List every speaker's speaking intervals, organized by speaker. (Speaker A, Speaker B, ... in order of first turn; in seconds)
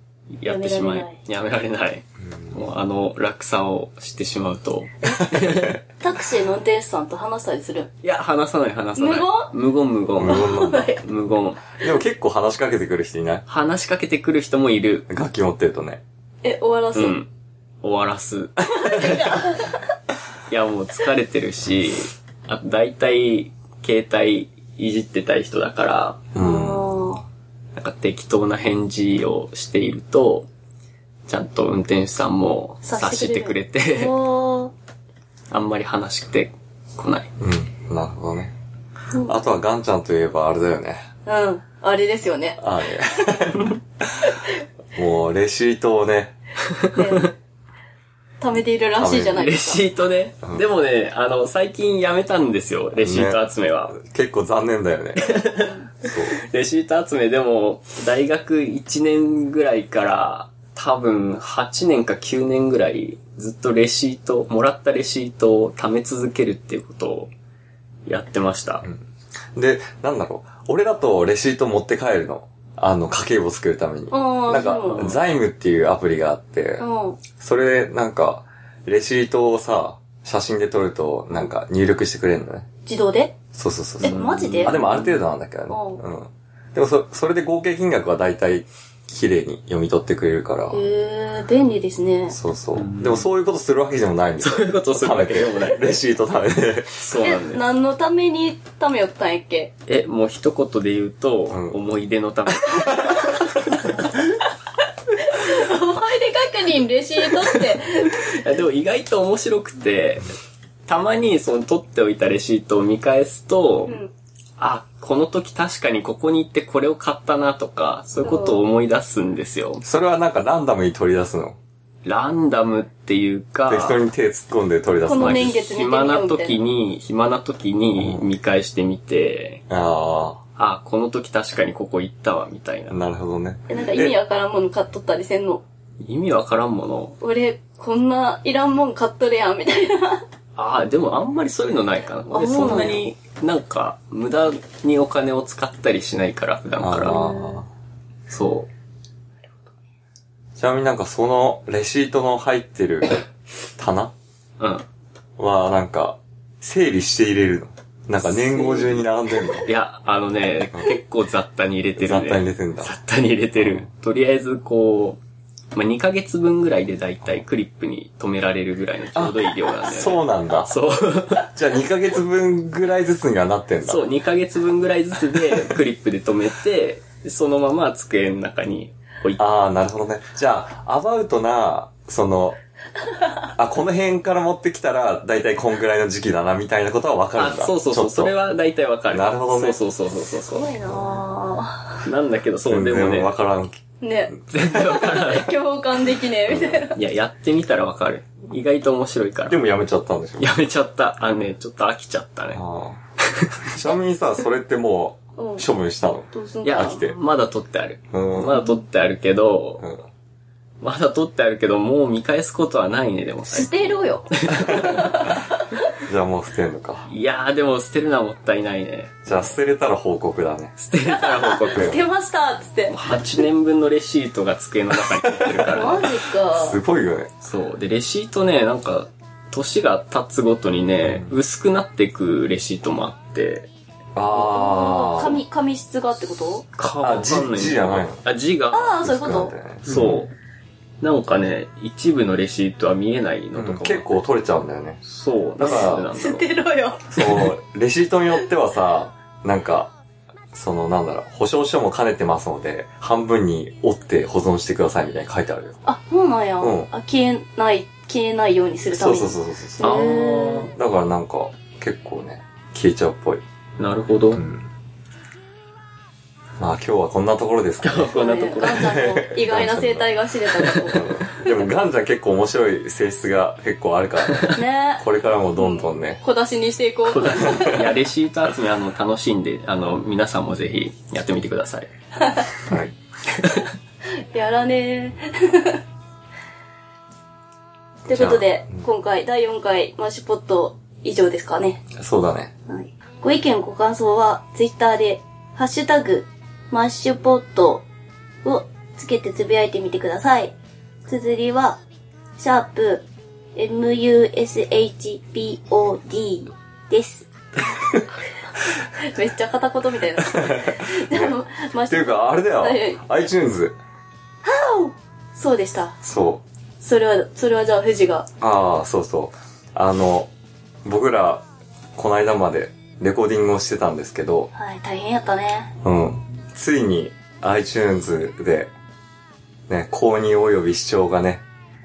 Speaker A: 0.3-5.8, 8.0-11.7, 13.5-15.1, 16.9-17.3, 17.8-19.4, 20.5-26.2, 27.8-30.5, 31.3-34.2, 35.5-37.3, 46.8-47.2, 49.4-54.0, 55.2-67.3, 68.1-68.9, 74.9-75.2, 84.0-85.2, 92.7-93.3, 94.4-95.9, 97.0-97.6, 99.9-103.5, 107.3-114.0, 114.6-119.8, 122.0-124.0, 125.1-129.6, 130.6-133.0, 136.0-137.2, 140.6-147.2, 148.3-148.7, 154.6-154.8, 158.2-159.0, 159.7-165.2, 165.7-171.5, 173.8-179.4, 187.4-190.8, 192.0-193.3, 194.5-195.5, 196.9-199.6, 200.4-202.6, 206.6-209.9, 210.8-215.0, 217.1-219.1, 220.8-222.0, 222.9-226.1, 227.4-233.7, 236.8-239.0, 239.9-240.3, 241.0-244.1, 245.0-246.5, 259.8-260.7, 263.8-264.4, 267.8-268.9, 270.6-271.0, 277.1-281.9
Speaker B: 0.5-1.2, 6.0-7.9, 9.0-9.5, 10.3-11.0, 16.4-17.2, 18.7-19.8, 26.4-27.2, 32.8-34.7, 39.1-39.4, 41.3-42.6, 46.9-47.3, 48.4-49.9, 55.5-55.9, 74.1-75.0, 76.8-77.2, 82.8-83.3, 84.0-84.8, 85.7-86.0, 90.7-92.4, 97.2-99.7, 105.2-108.1, 113.9-114.1, 118.2-118.6, 125.0-126.6, 133.7-135.6, 137.2-140.2, 142.3-143.0, 147.1-147.7, 190.4-192.0, 194.0-197.0, 205.4-205.7, 206.3-207.0, 213.5-215.6, 221.1-223.0, 225.7-226.8, 234.3-236.7, 238.7-239.6, 245.6-247.5, 255.8-260.7, 268.1-271.0, 274.5-275.1, 275.6-277.9, 284.2-285.8, 288.1-291.8, 292.7-297.8, 298.4-300.6, 301.1-301.8, 302.4-303.1, 303.6-307.3, 309.0-313.0, 314.4-316.0, 316.8-318.3, 324.5-325.7
Speaker C: 2.3-2.6, 5.1-5.8, 10.2-11.0, 11.8-13.4, 15.1-16.0, 26.3-26.9, 37.4-38.5, 39.2-41.0, 42.6-44.3, 45.0-46.4, 49.0-49.4, 53.0-55.3, 56.0-56.4, 68.8-76.9, 77.4-82.7, 83.5-90.9, 92.3-97.1, 101.5-101.8, 119.8-121.6, 123.7-125.6, 128.0-128.3, 129.7-130.4, 132.9-134.2, 146.8-147.7, 150.6-153.2, 153.8-154.1, 155.4-159.7, 162.0-162.9, 163.6-163.9, 169.2-170.8, 171.4-174.1, 179.4-182.6, 183.5-188.3, 189.1-189.8, 192.7-194.9, 196.5-196.8, 199.5-200.6, 202.5-203.0, 203.7-207.2, 208.1-208.6, 209.8-210.1, 216.0-217.1, 219.2-220.8, 221.8-222.0, 225.0-225.7, 226.5-227.3, 231.0-231.3, 234.2-235.4, 236.8-238.2, 239.0-240.2, 243.6-245.0, 245.6-246.1, 247.1-249.9, 250.5-255.8, 256.6-256.9, 258.9-263.4, 264.4-264.7, 266.6-270.1, 270.8-276.2, 282.6-282.9, 288.1-288.9, 291.9-292.5, 310.2-313.8, 316.0-316.4, 318.4-320.3, 320.9-321.4, 322.0-324.5, 325.8-328.7, 329.7-331.4